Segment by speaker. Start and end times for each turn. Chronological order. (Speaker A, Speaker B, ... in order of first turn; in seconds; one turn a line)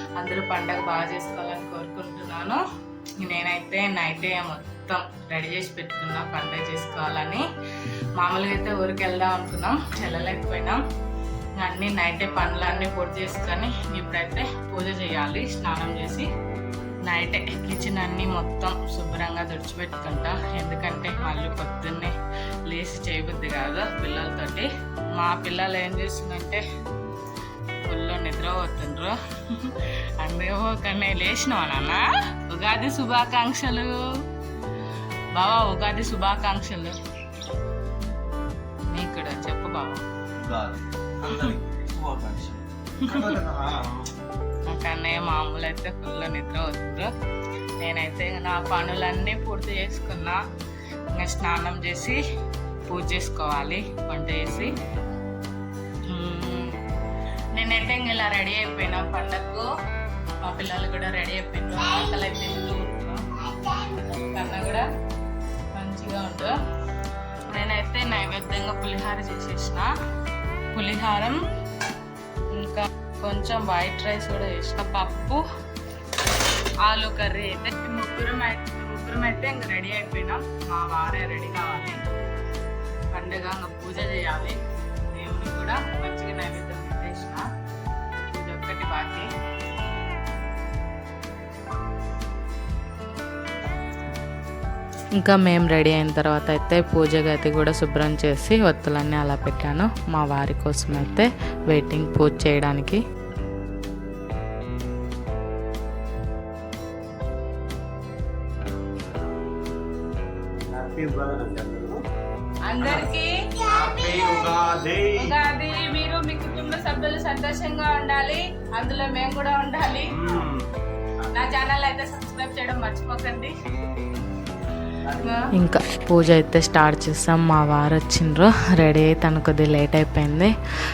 Speaker A: 0.2-2.6
Speaker A: 3.2-7.5
Speaker A: 8.2-10.8
Speaker A: 11.6-16.3
Speaker A: 17.1-22.1
Speaker A: 22.7-26.6
Speaker A: 27.9-34.0
Speaker A: 35.4-37.0
Speaker A: 38.9-40.1
Speaker B: 40.4-44.1
Speaker A: 41.3-41.5
Speaker A: 43.0-43.4
Speaker A: 44.7-47.1
Speaker A: 47.8-50.4
Speaker A: 51.1-52.2
Speaker A: 52.9-54.7
Speaker A: 56.1-56.8
Speaker A: 57.5-59.7
Speaker A: 60.4-64.8
Speaker A: 65.8-66.6
Speaker A: 67.5-69.9
Speaker A: 70.7-71.4
Speaker A: 72.5-75.5
Speaker A: 76.8-82.0
Speaker A: 83.1-87.5
Speaker A: 88.3-89.3
Speaker C: 95.2-103.0
Speaker B: 110.7-112.0
Speaker A: 112.7-114.5
Speaker B: 113.7-115.3
Speaker A: 115.1-120.5
Speaker B: 120.1-120.7
Speaker A: 121.3-123.5
Speaker A: 125.1-125.6
Speaker C: 125.5-130.5